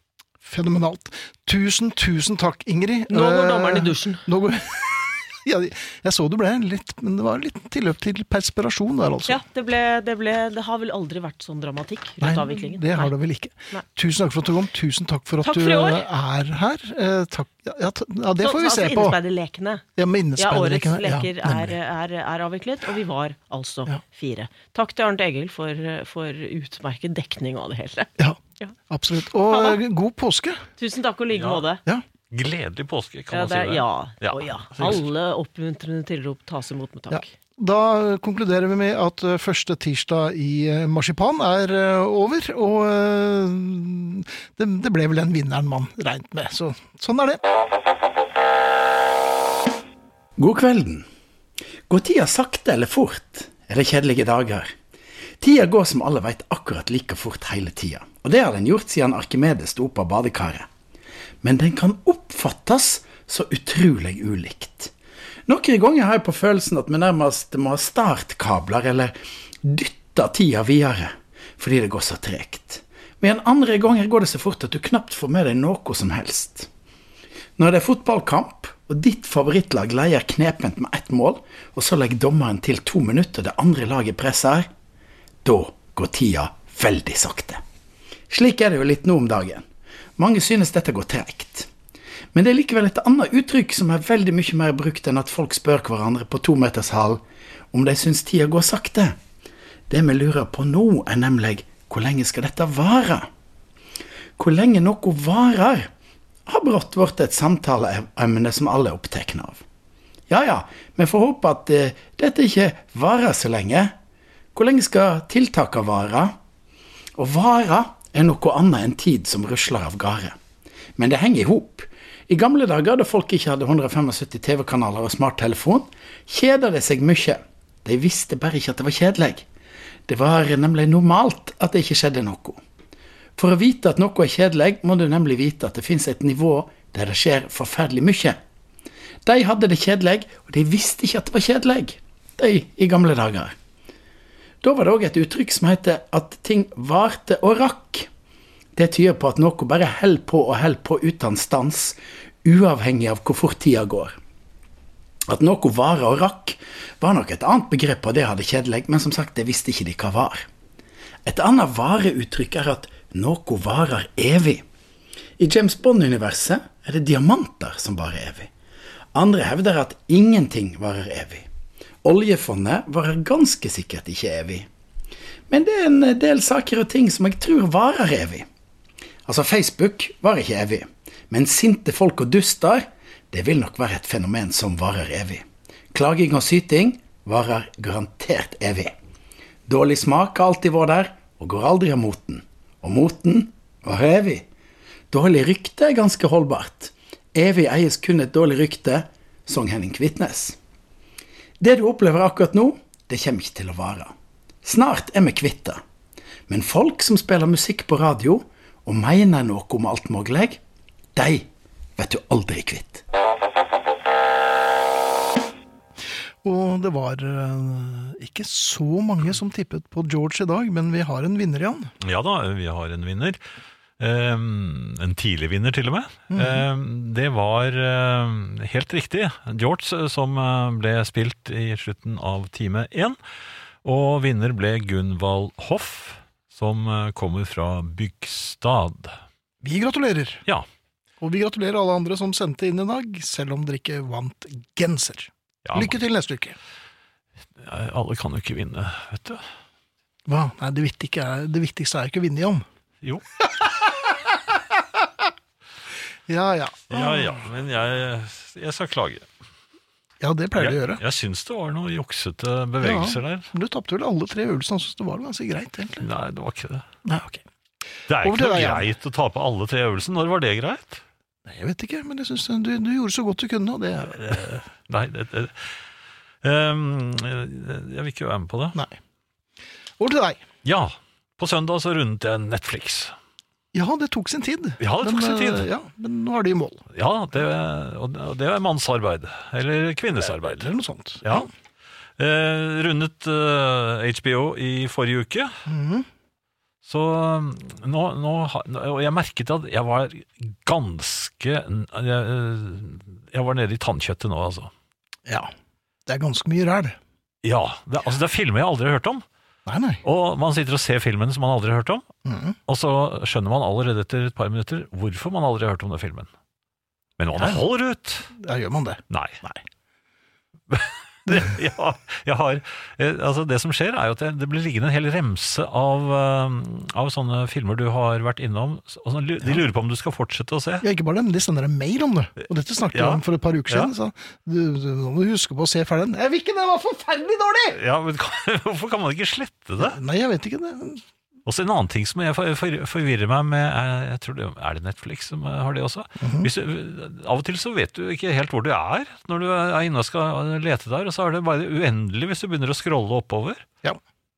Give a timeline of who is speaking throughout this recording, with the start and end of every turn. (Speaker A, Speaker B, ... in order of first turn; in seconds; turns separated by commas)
Speaker A: 0.4-9.4, Speaker B: 3.1-4.2, Speaker B: 9.3-13.1, Speaker A: 12.2-19.2, Speaker B: 15.4-16.0, Speaker B: 18.4-19.8, Speaker A: 20.0-21.8, Speaker B: 20.4-28.7, Speaker A: 28.2-30.6, Speaker B: 29.5-29.8, Speaker B: 30.8-31.8, Speaker C: 31.3-31.6, Speaker C: 32.3-35.0, Speaker B: 33.3-37.3, Speaker A: 37.1-47.4, Speaker D: 50.4-51.1, Speaker D: 51.9-54.7, Speaker D: 55.4-60.7, Speaker D: 61.4-64.9, Speaker D: 65.5-76.7, Speaker D: 77.6-84.7, Speaker D: 85.4-87.6, Speaker D: 88.3-89.7, Speaker D: 90.2-91.7, Speaker D: 92.3-99.2, Speaker D: 99.9-103.3, Speaker D: 104.4-105.9, Speaker D: 106.5-109.6, Speaker D: 110.3-113.9, Speaker D: 114.5-116.3, Speaker D: 117.2-120.3, Speaker D: 121.0-129.5, Speaker D: 130.1-132.6, Speaker D: 133.4-138.4, Speaker D: 139.2-143.5, Speaker D: 144.6-148.1, Speaker D: 148.8-154.2, Speaker D: 155.3-160.5, Speaker D: 161.2-164.6, Speaker D: 165.4-168.5, Speaker D: 169.1-171.5, Speaker D: 172.0-174.7, Speaker D: 175.5-178.4, Speaker D: 179.3-188.9, Speaker D: 189.7-194.5, Speaker D: 195.1-200.6, Speaker D: 201.6-204.1, Speaker D: 204.6-205.8, Speaker D: 206.5-210.6, Speaker D: 211.2-213.0, Speaker A: 216.4-221.9, Speaker C: 222.0-223.4, Speaker C: 224.0-233.2, Speaker A: 226.3-226.7, Speaker C: 233.8-239.2, Speaker A: 239.6-240.4, Speaker A: 241.2-246.6, Speaker C: 245.7-246.0, Speaker C: 247.6-249.4, Speaker A: 250.3-252.7, Speaker C: 253.0-254.1, Speaker A: 256.3-257.4, Speaker C: 256.9-259.3, Speaker A: 260.2-261.0, Speaker C: 260.6-263.5, Speaker A: 262.8-266.1, Speaker C: 266.0-266.9, Speaker A: 267.1-267.4, Speaker C: 268.1-271.0, Speaker A: 268.2-268.9, Speaker A: 271.5-274.6, Speaker C: 274.2-275.7, Speaker C: 276.4-278.8, Speaker A: 280.0-280.4, Speaker C: 280.6-283.1, Speaker A: 283.7-286.9, Speaker C: 284.8-285.7, Speaker C: 286.9-290.7, Speaker A: 290.2-291.5, Speaker C: 291.2-291.5, Speaker C: 292.2-295.5, Speaker A: 295.7-296.1, Speaker C: 296.8-304.7, Speaker A: 305.3-305.5, Speaker A: 306.1-307.0, Speaker C: 307.4-309.2, Speaker A: 309.7-310.0, Speaker C: 310.0-312.1, Speaker A: 312.2-312.6, Speaker C: 312.7-316.3, Speaker C: 317.2-318.3, Speaker A: 317.4-317.6, Speaker A: 318.4-319.6, Speaker C: 319.1-319.4, Speaker C: 320.7-330.9, Speaker A: 330.8-337.8, Speaker C: 332.9-333.9, Speaker C: 337.7-340.0, Speaker A: 339.8-341.0, Speaker C: 341.5-353.6, Speaker A: 346.2-346.5